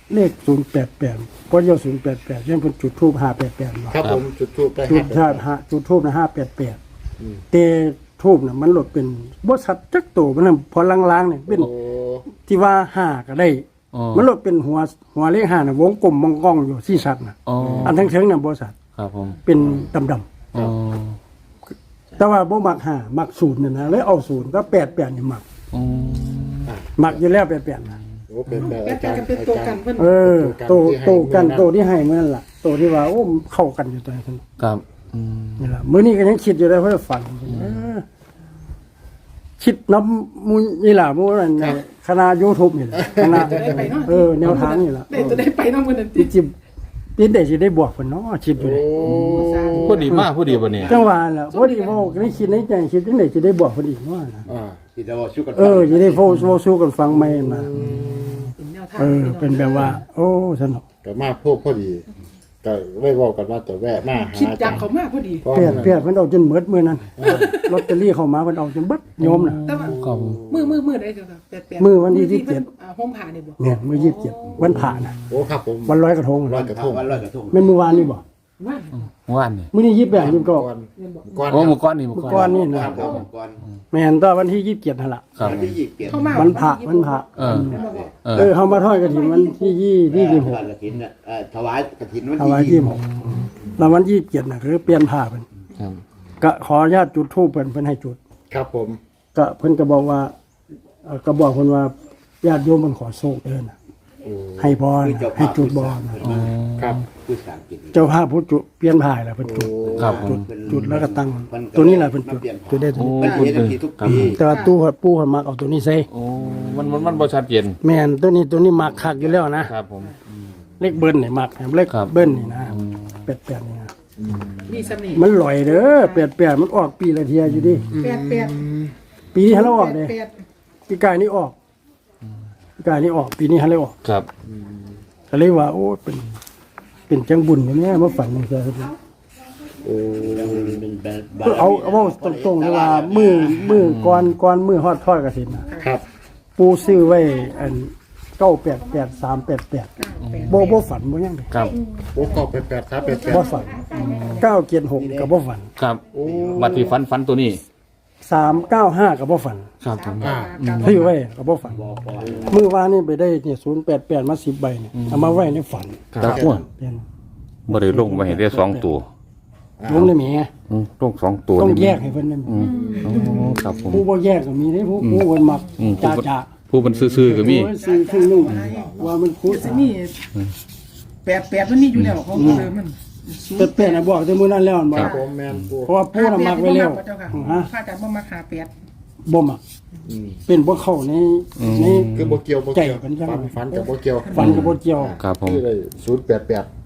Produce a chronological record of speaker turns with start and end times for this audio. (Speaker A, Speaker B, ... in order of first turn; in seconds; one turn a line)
Speaker A: 0.1-4.0
Speaker B: 3.9-5.5
Speaker A: 4.9-6.8
Speaker A: 7.5-11.7
Speaker B: 11.5-12.3
Speaker A: 12.3-18.8
Speaker C: 13.9-14.3
Speaker C: 17.5-18.1
Speaker B: 17.6-18.0
Speaker C: 19.0-19.4
Speaker A: 19.4-20.3
Speaker C: 20.5-21.2
Speaker A: 22.2-25.4
Speaker C: 25.7-26.7
Speaker B: 26.7-27.2
Speaker A: 27.0-28.0
Speaker B: 28.3-31.7
Speaker D: 28.6-30.1
Speaker A: 30.0-34.4
Speaker C: 34.6-35.6
Speaker A: 35.6-38.0
Speaker B: 37.6-37.9
Speaker A: 39.6-45.2
Speaker B: 43.0-43.9
Speaker D: 43.2-46.3
Speaker B: 45.1-45.5
Speaker A: 46.2-46.5
Speaker A: 47.2-48.9
Speaker B: 48.6-50.9
Speaker D: 49.1-50.2
Speaker C: 49.3-51.0
Speaker A: 50.9-54.5
Speaker D: 51.5-51.9
Speaker B: 54.5-54.8
Speaker E: 55.0-56.4
Speaker A: 55.5-57.7
Speaker B: 57.1-58.5
Speaker D: 58.6-59.9
Speaker A: 59.0-60.9
Speaker B: 61.0-62.1
Speaker B: 62.6-64.9
Speaker D: 64.3-65.5
Speaker B: 65.4-66.0
Speaker A: 65.5-69.6
Speaker B: 67.2-67.5
Speaker D: 67.2-67.9
Speaker C: 69.2-70.4
Speaker D: 69.7-74.7
Speaker B: 69.9-70.8
Speaker A: 71.8-72.7
Speaker A: 73.6-75.2
Speaker B: 75.3-77.2
Speaker A: 75.9-76.7
Speaker E: 76.5-77.8
Speaker A: 77.5-78.2
Speaker D: 78.6-79.1
Speaker C: 79.0-79.7
Speaker A: 79.7-80.7
Speaker B: 80.1-81.8
Speaker D: 81.0-81.7
Speaker C: 81.5-82.5
Speaker A: 82.1-83.2
Speaker E: 82.2-83.6
Speaker D: 82.3-83.3
Speaker A: 83.9-85.3
Speaker C: 85.4-85.7
Speaker E: 85.4-86.6
Speaker D: 86.0-89.7
Speaker A: 86.3-87.8
Speaker C: 87.4-88.5
Speaker E: 87.4-88.5
Speaker A: 88.3-90.7
Speaker E: 90.1-93.0
Speaker A: 92.4-93.0
Speaker C: 93.0-93.5
Speaker A: 93.8-95.5
Speaker A: 96.4-98.2
Speaker B: 98.5-99.0
Speaker A: 99.3-100.3
Speaker A: 101.0-103.8
Speaker B: 104.2-104.8
Speaker A: 104.6-106.2
Speaker E: 105.0-106.5
Speaker C: 106.2-107.1
Speaker B: 106.8-107.0
Speaker E: 107.1-108.1
Speaker A: 107.9-113.4
Speaker B: 109.4-110.2
Speaker E: 109.8-114.4
Speaker C: 110.0-110.4
Speaker C: 113.0-114.3
Speaker D: 113.2-113.5
Speaker A: 114.0-116.1
Speaker D: 114.4-114.7
Speaker C: 116.1-117.8
Speaker A: 117.8-119.7
Speaker E: 119.0-119.5
Speaker C: 119.5-120.1
Speaker A: 120.8-123.9
Speaker C: 121.9-123.2
Speaker B: 124.2-124.9
Speaker D: 124.7-126.2
Speaker A: 125.1-127.9
Speaker C: 127.5-128.0
Speaker B: 127.9-128.9
Speaker D: 128.0-128.6
Speaker A: 129.3-130.2
Speaker D: 129.4-130.3
Speaker A: 130.9-131.6
Speaker A: 132.8-133.9
Speaker C: 134.0-134.3
Speaker B: 134.5-134.8
Speaker A: 135.3-136.3
Speaker A: 137.1-138.9
Speaker B: 139.8-140.8
Speaker E: 140.2-143.8
Speaker A: 141.4-145.7
Speaker C: 143.8-144.3
Speaker D: 145.7-145.9
Speaker A: 146.6-149.9
Speaker D: 150.0-150.8
Speaker C: 150.2-150.6
Speaker A: 150.5-151.5
Speaker C: 151.5-151.8
Speaker B: 152.1-153.7
Speaker D: 153.1-154.1
Speaker A: 153.3-155.7
Speaker C: 153.9-154.5
Speaker E: 154.9-155.3
Speaker C: 155.8-156.0
Speaker B: 156.1-157.0
Speaker E: 156.2-156.6
Speaker C: 156.5-157.6
Speaker A: 158.2-159.7
Speaker C: 159.8-161.1
Speaker D: 159.9-161.1
Speaker B: 160.2-160.5
Speaker A: 160.8-161.8
Speaker E: 161.7-162.7
Speaker A: 162.4-167.0
Speaker C: 164.9-165.6
Speaker C: 166.1-166.7
Speaker B: 166.2-166.5
Speaker C: 167.7-169.1
Speaker A: 167.7-169.0
Speaker B: 169.8-170.1
Speaker A: 169.9-170.5
Speaker C: 170.7-174.1
Speaker A: 171.6-172.7
Speaker D: 172.6-173.5
Speaker B: 172.6-173.5
Speaker A: 173.9-176.5
Speaker C: 175.8-177.8
Speaker A: 177.1-179.9
Speaker D: 177.8-178.9
Speaker B: 178.4-179.2
Speaker D: 179.5-180.2
Speaker D: 181.2-184.1
Speaker A: 182.3-182.7
Speaker A: 183.6-185.2
Speaker B: 184.9-186.0
Speaker D: 184.9-185.3
Speaker A: 185.9-187.7
Speaker D: 186.1-188.7
Speaker A: 189.3-189.6
Speaker B: 190.1-190.4
Speaker A: 190.5-192.2
Speaker C: 191.6-192.4
Speaker B: 192.2-196.7
Speaker A: 192.7-195.2
Speaker D: 194.2-194.7
Speaker C: 194.4-195.6